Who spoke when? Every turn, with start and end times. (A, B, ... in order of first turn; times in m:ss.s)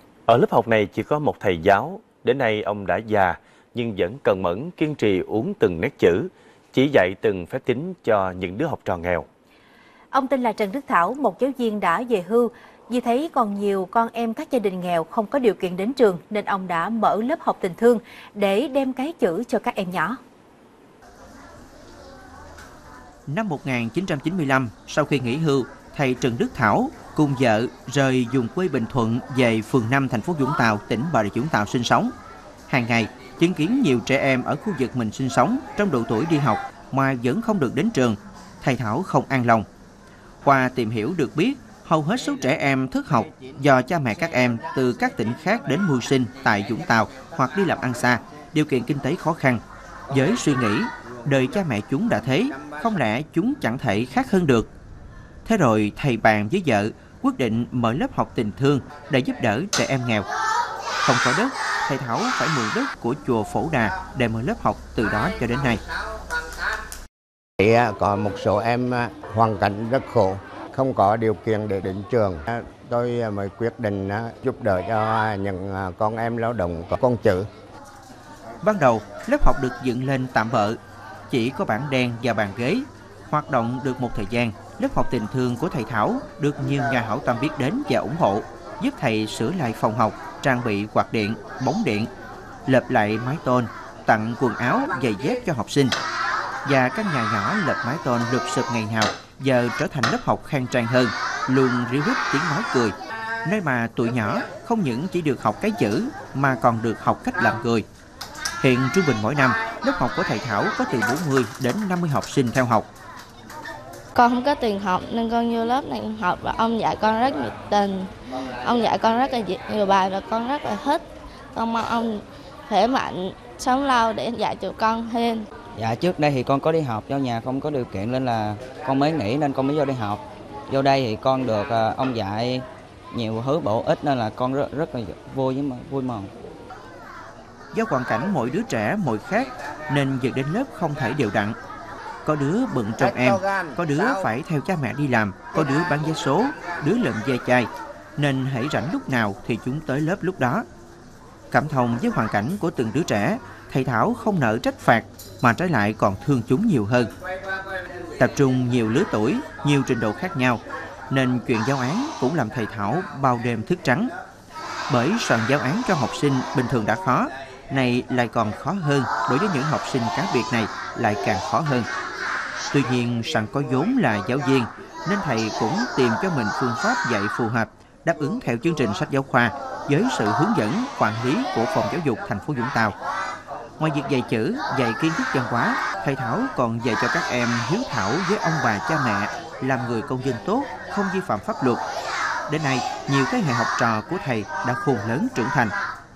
0:00.3-0:09.2 A
0:10.1-0:20.2 B
0:23.3-0:32.1 C
0:32.7-0:39.7 C
0:40.4-0:54.7 C
0:55.4-1:00.3 C
1:01.0-1:05.8 C
1:07.6-1:17.5 D
1:18.6-1:20.8 C
1:21.3-1:32.1 C
1:32.7-1:35.9 C
1:36.6-1:47.8 C
1:48.6-1:52.9 C
1:54.1-2:05.5 E
2:05.7-2:16.3 F
2:17.7-2:21.6 C
2:22.2-2:30.6 C
2:31.5-2:37.1 C
2:38.2-2:44.1 C
2:44.9-2:51.9 C
2:52.7-3:03.0 C
3:03.8-3:11.8 C
3:12.5-3:15.8 C